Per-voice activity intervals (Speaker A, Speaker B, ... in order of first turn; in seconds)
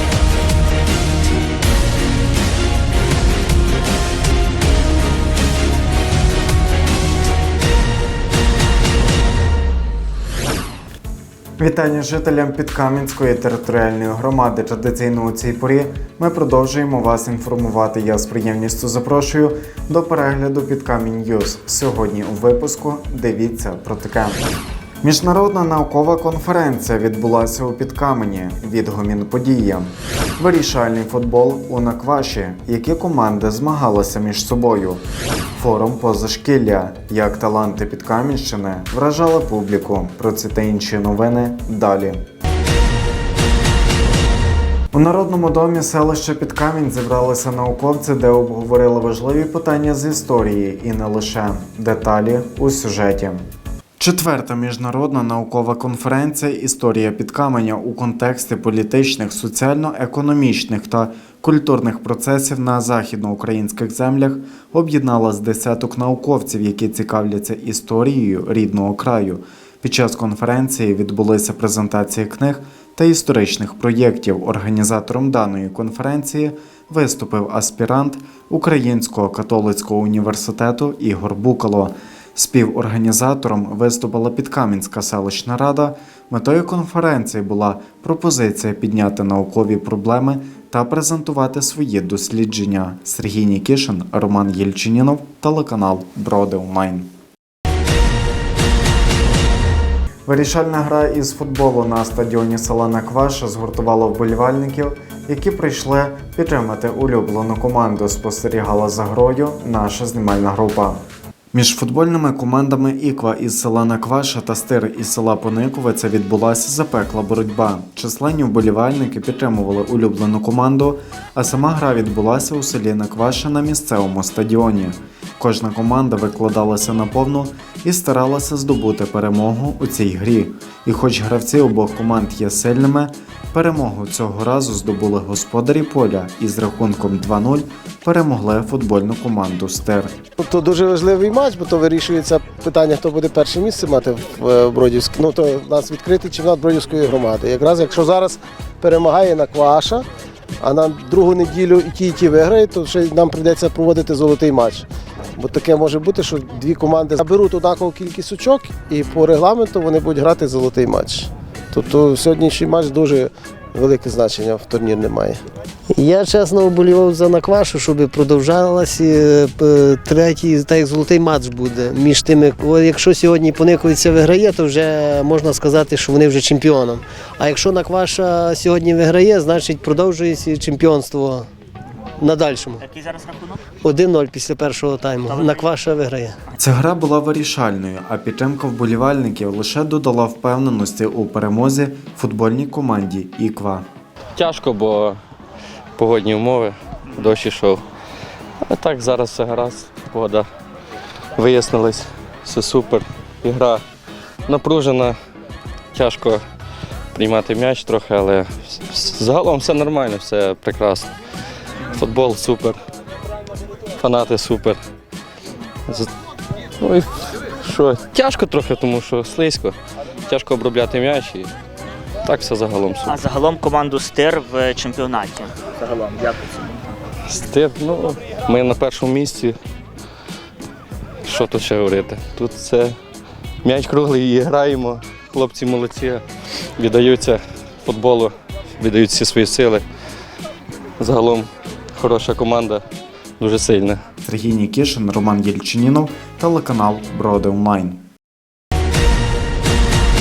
Speaker A: 11.6-24.5, 25.0-35.0, 35.6-42.2, 44.9-53.4, 54.0-97.1, 100.3-140.1, 186.6-193.8, 244.2-248.0
Speaker B: 140.4-150.1, 150.6-165.4
Speaker C: 165.9-181.5, 182.2-182.8, 183.8-186.4
Speaker D: 182.8-183.6, 185.3-185.8, 223.1-225.5
Speaker E: 194.4-195.2, 196.0-197.8, 198.7-200.5, 201.4-203.8, 204.5-205.2, 205.9-206.4, 207.1-211.1, 212.0-212.8, 214.0-214.8, 216.8-219.8, 220.3-221.5, 222.2-223.2, 227.3-229.6, 231.2-233.0, 233.6-236.2, 236.8-239.8, 241.0-242.8, 243.4-244.0